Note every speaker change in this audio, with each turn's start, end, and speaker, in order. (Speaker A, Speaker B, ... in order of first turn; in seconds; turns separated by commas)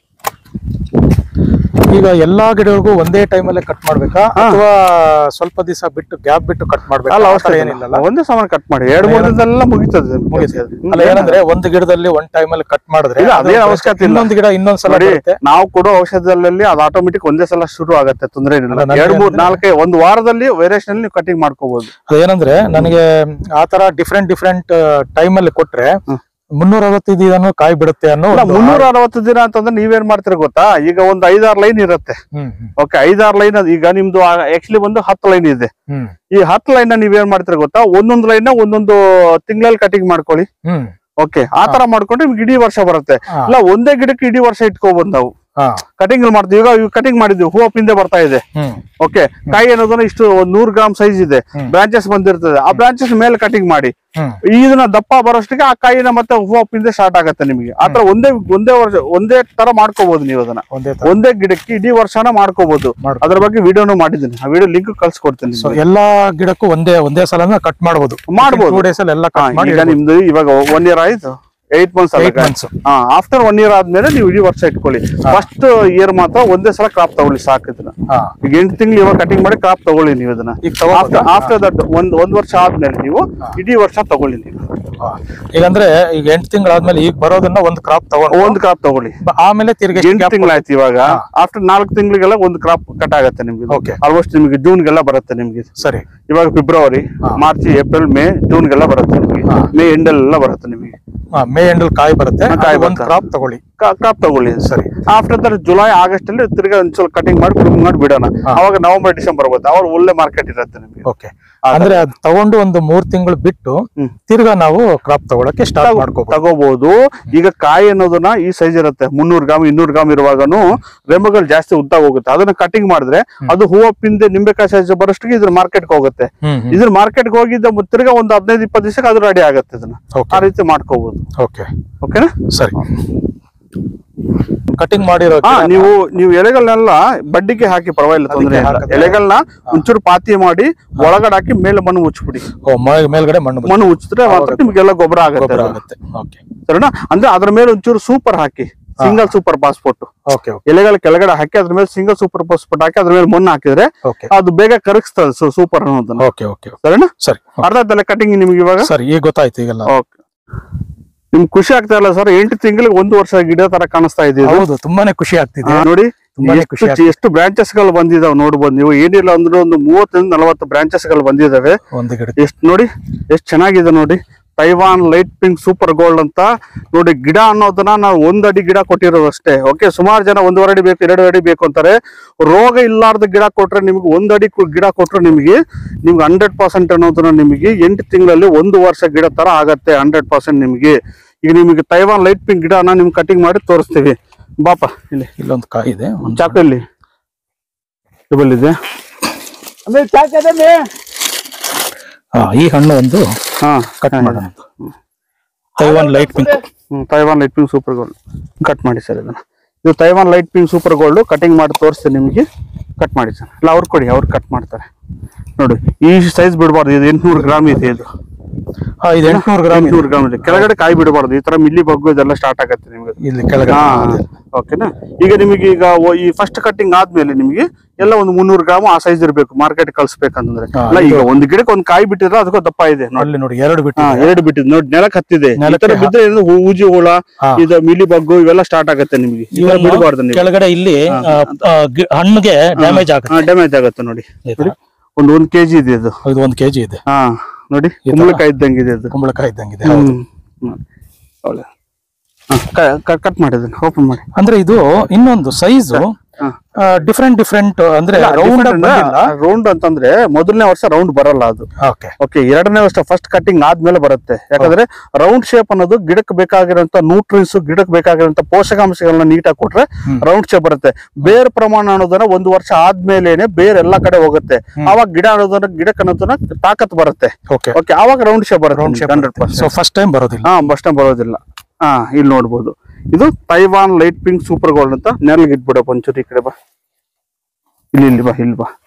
Speaker A: 1.9-8.0, Speaker B: 4.4-4.6, Speaker B: 7.1-11.4, Speaker A: 9.0-9.4, Speaker A: 10.3-15.4, Speaker B: 13.2-14.3, Speaker B: 14.9-21.9, Speaker A: 18.7-19.6, Speaker A: 22.1-23.0, Speaker A: 23.6-26.0, Speaker A: 26.6-28.9, Speaker B: 28.3-32.2, Speaker A: 32.4-32.7, Speaker B: 32.8-35.7, Speaker B: 36.3-40.5, Speaker A: 40.6-40.9, Speaker B: 41.2-45.3, Speaker A: 45.6-45.8, Speaker B: 46.0-48.4, Speaker A: 48.5-48.8, Speaker B: 49.0-53.9, Speaker B: 54.4-65.8, Speaker A: 60.7-61.1, Speaker A: 63.0-63.4, Speaker A: 65.6-70.0, Speaker B: 68.3-84.8, Speaker A: 72.2-72.7, Speaker A: 80.6-81.5, Speaker A: 85.0-88.6, Speaker B: 88.3-89.1, Speaker A: 89.2-91.2, Speaker B: 89.9-95.7, Speaker A: 93.7-94.0, Speaker A: 95.8-96.1, Speaker B: 96.3-101.0, Speaker A: 101.4-103.6, Speaker B: 102.5-103.1, Speaker B: 103.8-111.1, Speaker A: 104.6-104.9, Speaker A: 111.0-116.4, Speaker B: 111.7-112.1, Speaker B: 115.8-131.2, Speaker A: 126.4-126.8, Speaker A: 130.1-130.4, Speaker A: 131.4-131.7, Speaker B: 132.0-132.8, Speaker A: 132.5-132.9, Speaker A: 134.7-135.9, Speaker B: 135.4-142.4, Speaker A: 138.3-139.2, Speaker A: 142.6-144.7, Speaker B: 143.7-145.8, Speaker A: 145.3-146.4, Speaker B: 146.7-150.1, Speaker A: 149.0-149.3, Speaker A: 150.3-150.6, Speaker B: 150.7-156.2, Speaker A: 154.1-154.3, Speaker A: 156.2-157.6, Speaker B: 156.8-158.9, Speaker A: 158.8-159.9, Speaker B: 159.9-160.1, Speaker B: 161.3-164.7, Speaker A: 164.4-165.9, Speaker B: 165.7-171.8, Speaker A: 166.4-167.1, Speaker A: 171.9-172.4, Speaker B: 172.4-195.3, Speaker A: 195.4-196.6, Speaker B: 196.2-196.8, Speaker B: 198.3-198.8, Speaker B: 199.9-200.9, Speaker A: 202.3-203.2, Speaker B: 203.6-204.9, Speaker A: 204.0-204.7, Speaker A: 205.8-206.6, Speaker B: 205.8-212.4, Speaker B: 213.0-214.9, Speaker B: 215.6-218.1, Speaker A: 219.0-220.7, Speaker B: 219.2-233.3, Speaker A: 223.2-224.2, Speaker A: 230.7-231.3, Speaker A: 233.2-234.3, Speaker B: 234.0-240.5, Speaker A: 235.6-236.1, Speaker A: 239.5-243.4, Speaker B: 241.1-241.5, Speaker B: 242.8-246.2, Speaker A: 244.5-244.7, Speaker A: 246.2-247.0, Speaker B: 247.1-249.1, Speaker A: 248.1-248.4, Speaker A: 249.1-250.1, Speaker B: 249.8-250.8, Speaker B: 251.4-251.7, Speaker B: 252.5-254.3, Speaker A: 254.4-256.1, Speaker B: 255.9-256.6, Speaker A: 256.8-259.3, Speaker B: 258.1-261.7, Speaker A: 261.8-262.1, Speaker B: 262.2-279.7, Speaker A: 277.5-277.8, Speaker A: 278.7-280.6, Speaker B: 280.4-286.6, Speaker B: 287.9-288.7